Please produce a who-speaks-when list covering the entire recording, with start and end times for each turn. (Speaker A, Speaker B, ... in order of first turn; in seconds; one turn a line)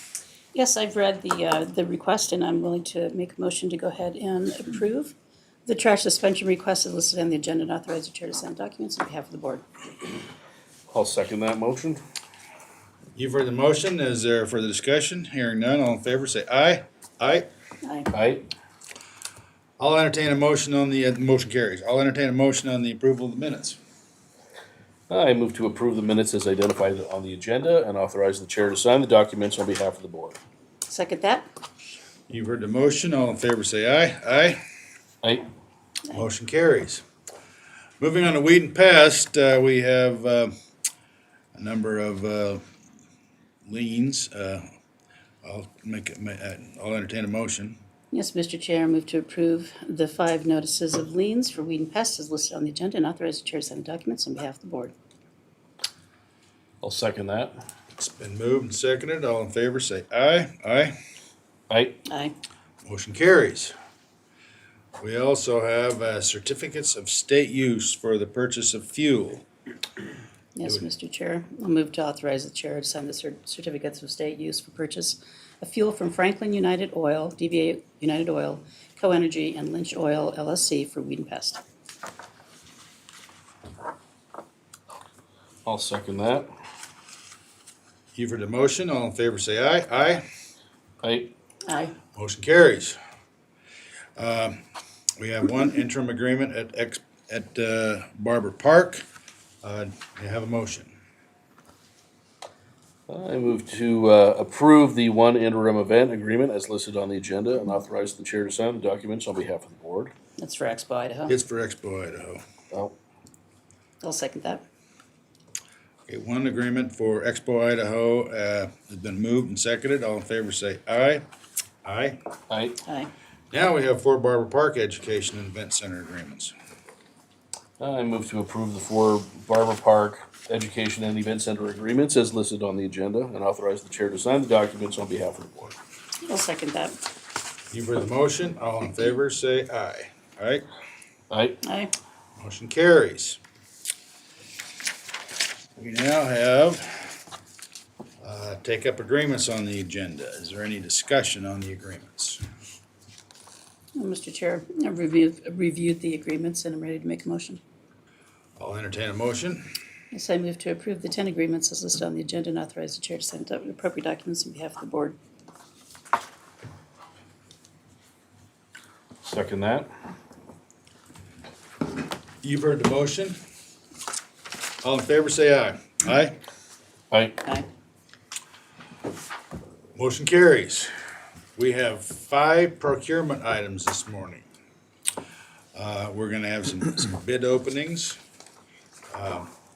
Speaker A: 0.5-5.1
Speaker A: 5.7-9.6
Speaker B: 10.9-12.0
Speaker C: 13.1-17.5
Speaker A: 17.8-18.1
Speaker B: 18.1-18.4
Speaker C: 19.8-23.8
Speaker B: 25.1-30.4
Speaker A: 30.9-31.4
Speaker C: 32.3-34.6
Speaker C: 36.1-37.0
Speaker C: 38.0-40.5
Speaker C: 41.5-42.6
Speaker C: 43.6-44.6
Speaker C: 45.4-47.8
Speaker A: 48.1-54.9
Speaker B: 56.8-57.5
Speaker C: 58.0-60.9
Speaker B: 61.7-62.0
Speaker A: 62.1-62.3
Speaker C: 62.8-63.7
Speaker C: 65.0-69.4
Speaker A: 70.5-81.6
Speaker B: 85.6-86.5
Speaker C: 88.1-90.2
Speaker B: 91.0-91.3
Speaker A: 91.7-91.9
Speaker C: 92.1-93.0
Speaker C: 94.2-94.6
Speaker C: 95.2-99.0
Speaker C: 99.6-100.9
Speaker B: 103.1-110.1
Speaker A: 110.4-111.3
Speaker C: 111.3-112.4
Speaker A: 114.0-114.6
Speaker C: 116.1-121.2
Speaker C: 121.8-122.2
Speaker B: 122.5-122.8
Speaker A: 122.8-123.1
Speaker C: 123.5-126.5
Speaker B: 127.8-135.8
Speaker A: 136.2-137.0
Speaker C: 137.7-140.6
Speaker B: 141.3-141.6
Speaker A: 141.6-141.9
Speaker C: 142.4-143.4
Speaker C: 145.8-147.1
Speaker C: 148.2-152.4
Speaker A: 153.9-157.6
Speaker C: 158.6-159.7
Speaker A: 160.1-165.2
Speaker B: 169.2-169.9
Speaker C: 172.4-173.4
Speaker C: 174.8-176.3
Speaker B: 177.1-177.3
Speaker C: 179.9-180.9
Speaker C: 181.6-184.4
Speaker C: 185.7-188.2
Speaker C: 189.1-189.5